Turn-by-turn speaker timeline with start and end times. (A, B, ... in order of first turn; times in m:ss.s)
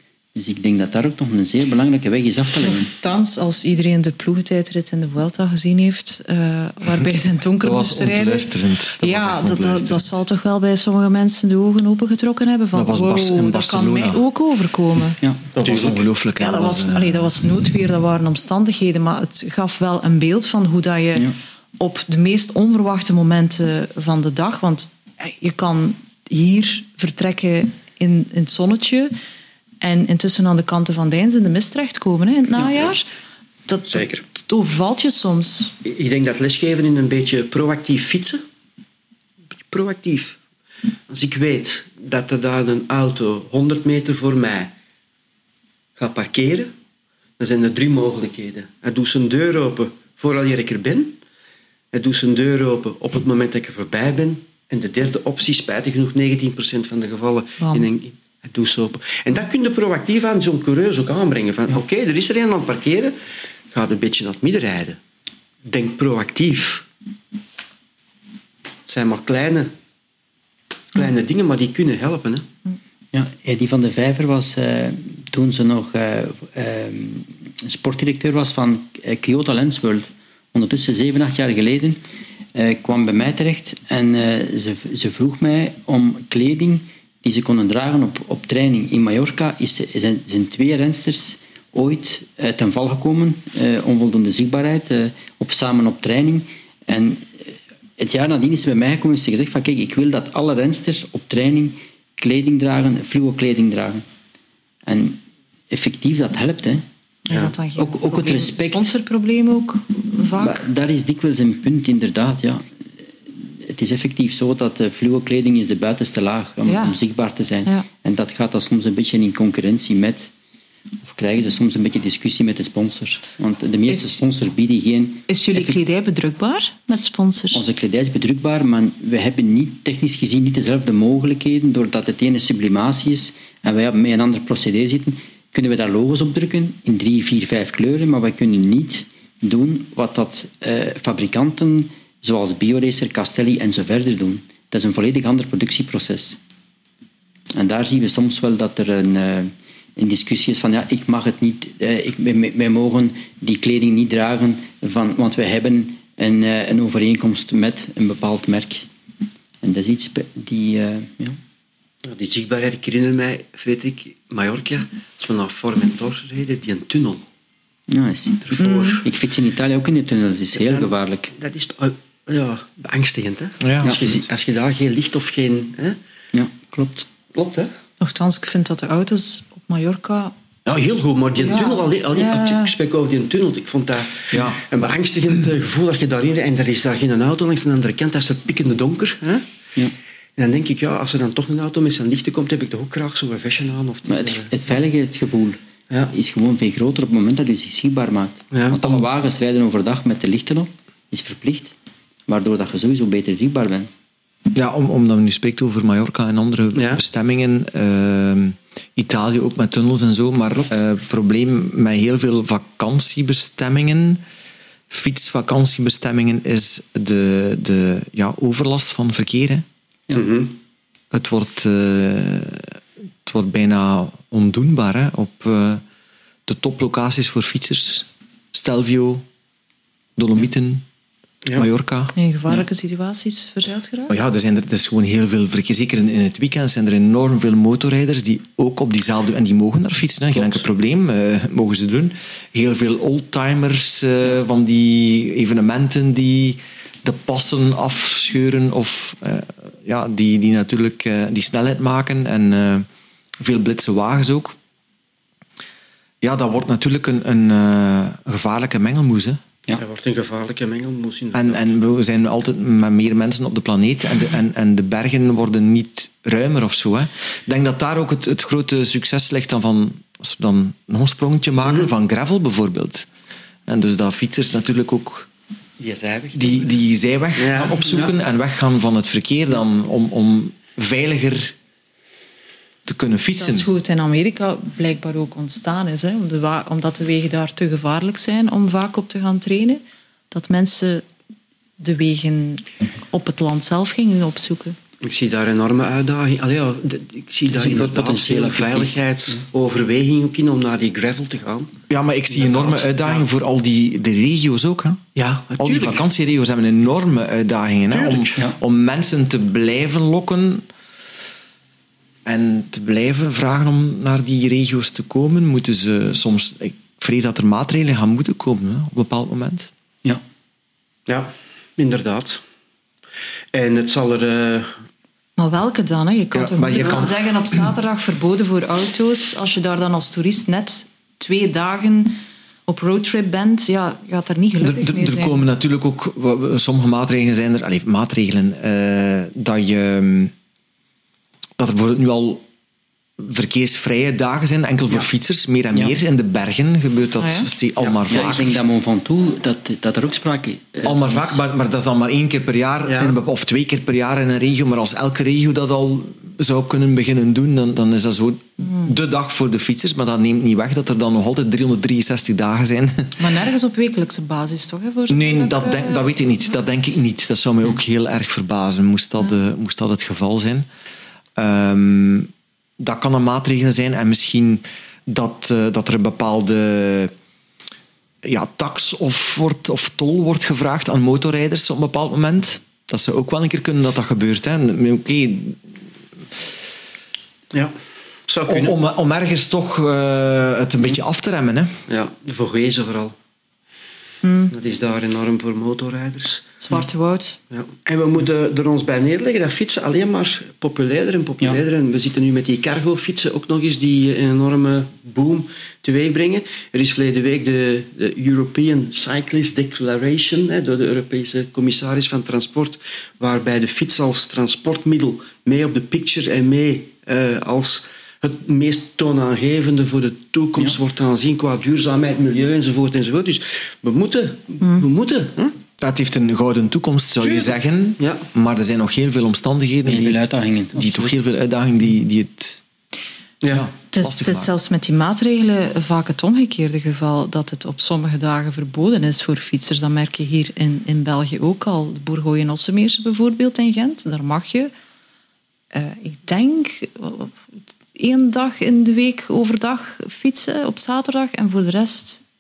0:00.4-0:02.9 A
0:02.6-0:15.2 B
0:07.6-0:10.0 C
0:12.7-0:14.2 C
0:15.6-0:17.3 C
0:15.6-0:16.1 D
0:16.4-0:29.1 B
0:29.8-0:33.0 B
0:33.7-0:35.7 B
0:33.9-0:34.2 D
0:35.8-0:38.4 D
0:39.6-0:40.4 D
0:41.1-0:44.7 D
0:46.0-0:46.7 D
0:47.4-0:51.2 D
0:51.9-1:03.2 D
0:57.6-0:57.9 B
1:03.7-1:05.0 D
1:05.6-1:06.8 D
1:08.9-1:09.7 D
1:10.9-1:12.5 D
1:13.1-1:22.0 A
1:22.5-1:44.0 A
1:44.9-1:46.8 A
1:47.3-1:50.7 B
1:47.8-1:48.9 A
1:50.4-1:52.7 A
1:53.4-2:00.3 A
1:56.7-1:57.0 B
2:01.1-2:05.8 A
2:03.9-2:04.2 B
2:05.3-2:07.6 B
2:07.5-2:26.4 A
2:27.6-2:38.9 A
2:39.6-2:41.4 A
2:42.0-2:47.2 D
2:47.9-2:51.3 A
2:48.4-2:49.0 D
2:48.6-2:49.0 B
2:50.6-2:56.0 D
2:53.6-2:54.2 C
2:56.3-2:57.1 A
2:57.3-2:57.7 D
2:58.0-3:00.3 B
3:00.6-3:09.4 D
3:01.4-3:02.7 B
3:04.3-3:04.6 C
3:10.4-3:14.5 D
3:14.1-3:15.6 A
3:16.1-3:21.8 A
3:18.5-3:18.8 D
3:22.3-3:23.9 A
3:24.5-3:34.2 C
3:26.7-3:27.0 D
3:34.9-3:39.6 C
3:40.1-3:40.6 D
3:41.1-3:45.8 C
3:46.5-3:49.2 C
3:50.2-3:50.8 C
3:51.6-3:52.1 C
3:52.2-3:54.2 B
3:54.1-4:12.9 C
4:13.4-4:14.6 C
4:16.2-4:19.4 C
4:19.8-4:21.7 D
4:21.3-4:33.1 C
4:33.7-4:35.3 C
4:35.8-4:36.7 D
4:36.3-4:41.6 C
4:37.4-4:38.1 D
4:42.8-4:43.7 C
4:43.4-4:51.0 B
4:51.8-4:54.8 B
4:55.0-5:01.8 D
4:57.5-4:59.4 A
5:01.9-5:05.0 C
5:02.3-5:03.3 D
5:05.2-5:06.0 D
5:05.6-5:10.6 C
5:07.9-5:08.4 D
5:12.2-5:19.7 C
5:21.1-5:22.4 D
5:23.5-5:24.7 D
5:25.4-5:35.4 B
5:26.3-5:27.6 C
5:34.6-5:40.3 C
5:41.6-5:42.4 C
5:43.2-5:48.6 C
5:47.2-5:47.5 B
5:47.8-5:48.2 D
5:48.1-5:51.4 A
5:50.8-6:03.2 C
5:52.9-5:53.2 D
6:03.2-6:06.2 B
6:05.1-6:10.7 C
6:11.4-6:17.1 C
6:18.2-6:25.6 C
6:28.3-6:28.8 D
6:28.5-6:31.8 C
6:31.9-6:33.2 D
6:34.2-6:34.5 B
6:34.5-6:36.5 D
6:36.6-6:37.4 B
6:37.5-7:05.6 D
7:05.8-7:10.2 C
7:07.2-7:08.2 D
7:09.8-7:11.1 A
7:10.7-7:12.6 C
7:13.4-7:13.7 D
7:13.5-7:14.5 C
7:13.9-7:24.7 B
7:25.7-7:27.3 B
7:28.0-7:32.2 B